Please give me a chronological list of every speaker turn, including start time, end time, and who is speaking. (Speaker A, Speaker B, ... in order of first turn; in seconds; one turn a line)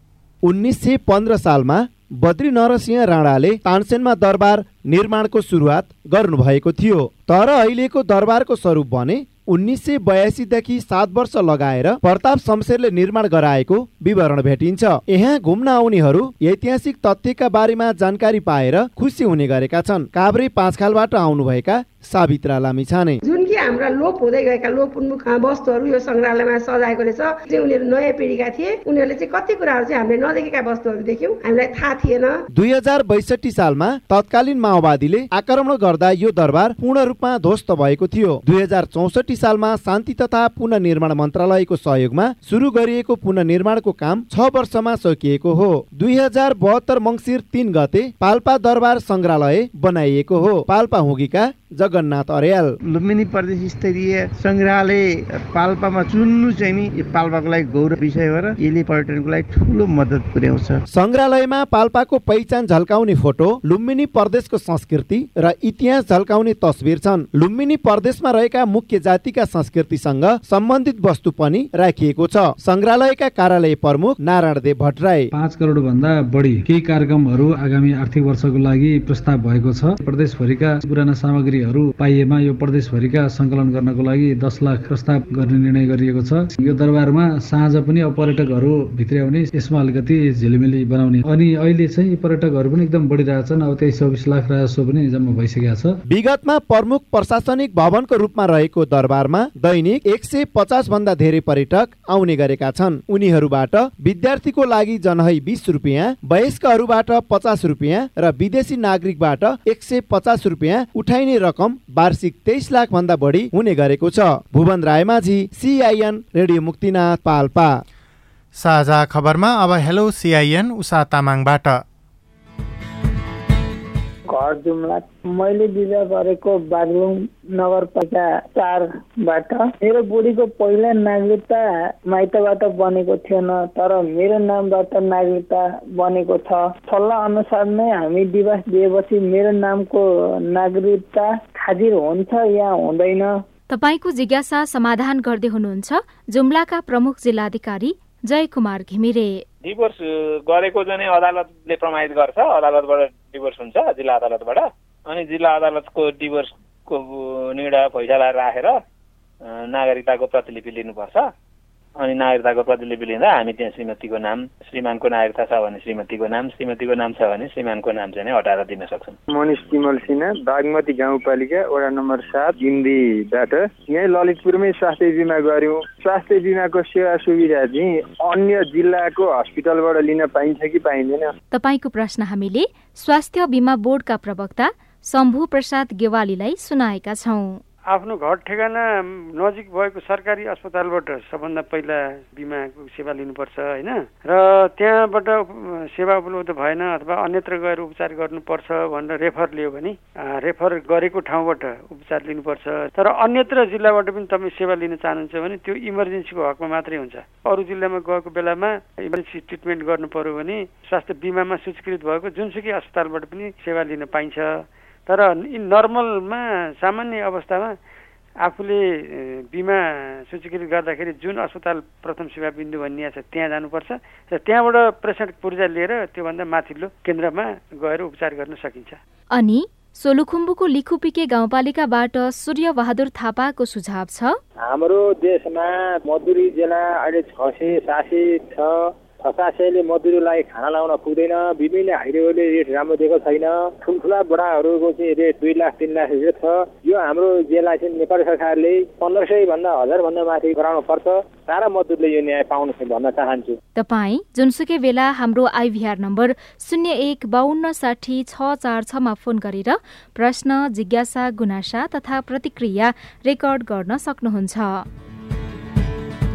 Speaker A: 0.4-23.2
Speaker B: 23.2-32.4
Speaker A: 32.5-52.8
Speaker C: 52.9-60.8
Speaker A: 60.9-75.3
Speaker D: 75.3-96.0
Speaker A: 96.1-117.7
Speaker E: 118.6-121.8
Speaker F: 124.3-143.3
Speaker G: 143.7-149.4
Speaker H: 149.6-158.8
Speaker H: 159.4-161.3
Speaker H: 162.0-169.2
Speaker I: 169.3-181.3
Speaker G: 181.5-187.6
Speaker J: 187.9-217.8
Speaker J: 218.4-229.0
Speaker G: 229.3-234.4
Speaker K: 234.6-253.6
Speaker G: 253.8-264.9